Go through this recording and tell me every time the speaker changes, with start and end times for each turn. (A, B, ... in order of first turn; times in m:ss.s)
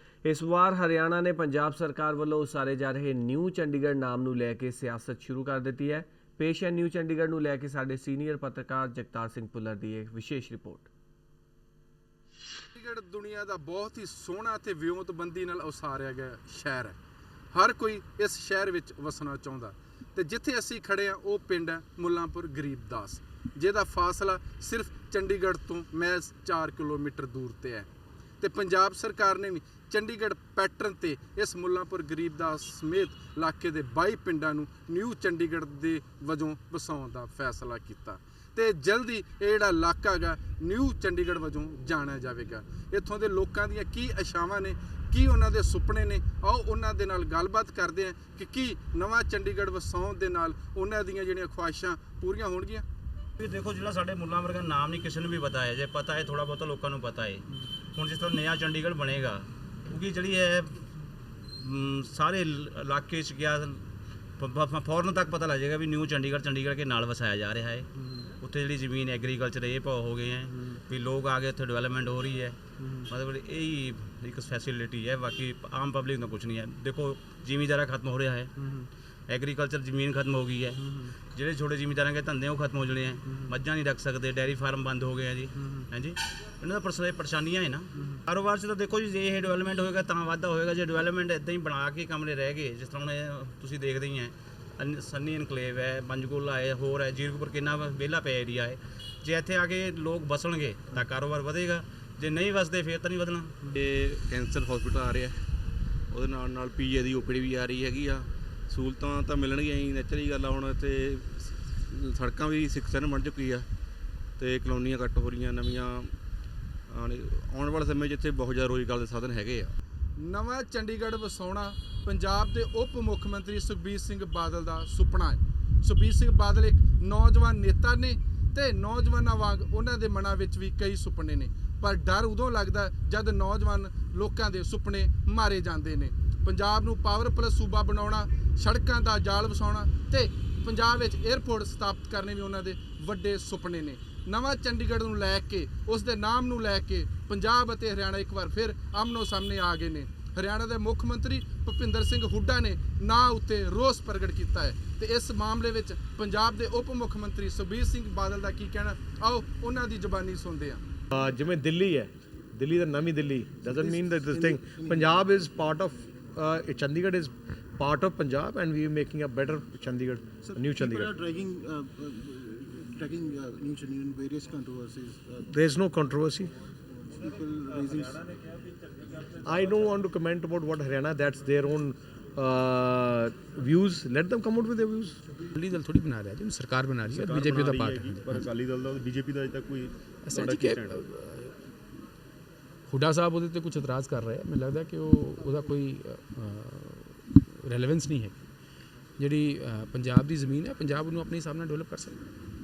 0:00.2-0:10.9 A
0:12.7-0:17.0 B
0:17.5-0:27.9 B
0:28.4-0:52.8 B
0:53.4-1:00.8 C
1:01.6-1:03.8 C
1:04.4-1:07.9 C
1:08.4-1:12.6 C
1:13.1-1:18.5 C
1:18.6-1:18.9 D
1:19.3-1:20.8 C
1:21.3-1:43.5 C
1:43.7-1:45.4 D
1:46.1-1:53.7 D
1:54.4-1:56.1 D
1:56.9-1:59.7 D
2:00.2-2:40.8 B
2:41.1-2:51.2 E
2:43.8-2:45.1 F
2:50.4-2:55.5 F
2:55.5-2:56.5 E
2:57.1-2:58.4 F
2:59.4-3:05.2 E
3:05.5-3:08.5 G
3:07.1-3:10.9 H
3:10.2-3:11.7 G
3:12.9-3:18.4 G
3:19.2-3:22.2 G